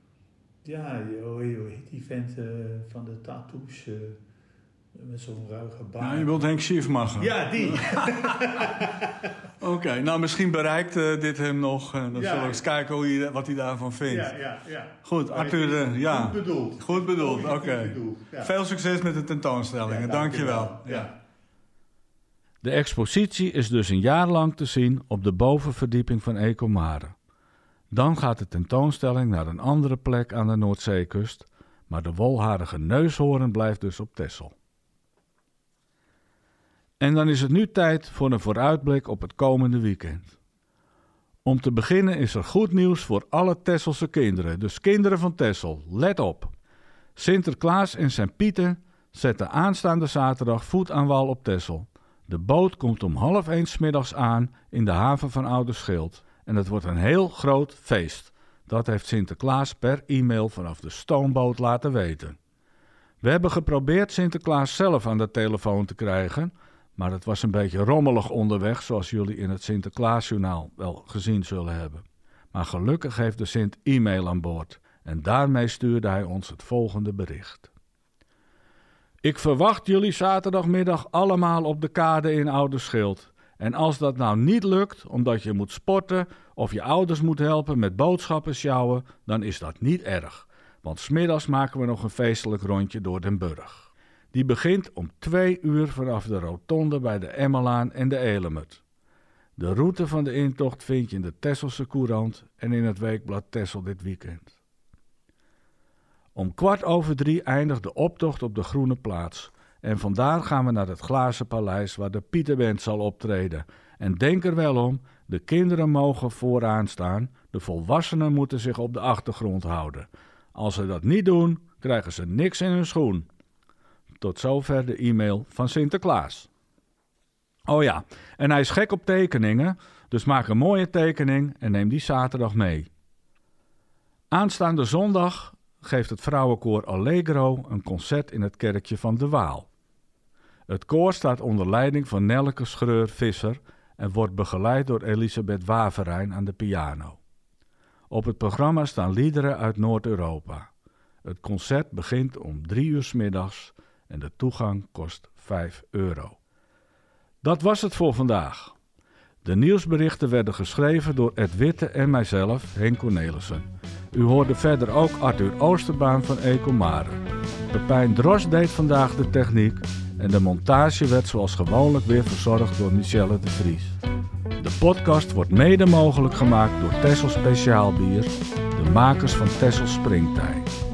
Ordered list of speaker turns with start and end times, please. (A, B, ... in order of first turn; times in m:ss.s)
0:00.6-0:04.2 A
0:05.0-0:06.4 A
0:06.0-0:08.0 B
0:07.2-0:09.1 A
0:09.6-0:14.3 B
0:12.1-0:12.6 A
0:14.1-0:18.6 A
0:15.0-0:21.1 B
0:19.8-0:21.2 A
0:22.6-0:27.1 B
0:27.9-0:34.6 B
0:37.0-0:40.4 B
0:41.4-0:46.5 B
0:47.2-1:02.4 B
1:03.2-1:17.7 B
1:19.2-1:38.8 B
1:39.6-1:44.6 B
1:46.4-2:03.3 B
2:04.2-2:06.5 B
2:07.7-2:12.9 B
2:14.3-2:19.7 B
2:20.7-2:27.2 B
2:28.1-2:30.7 B
2:31.2-2:36.4 B
2:37.4-2:38.8 B
2:39.4-2:54.0 B
2:54.6-3:00.7 B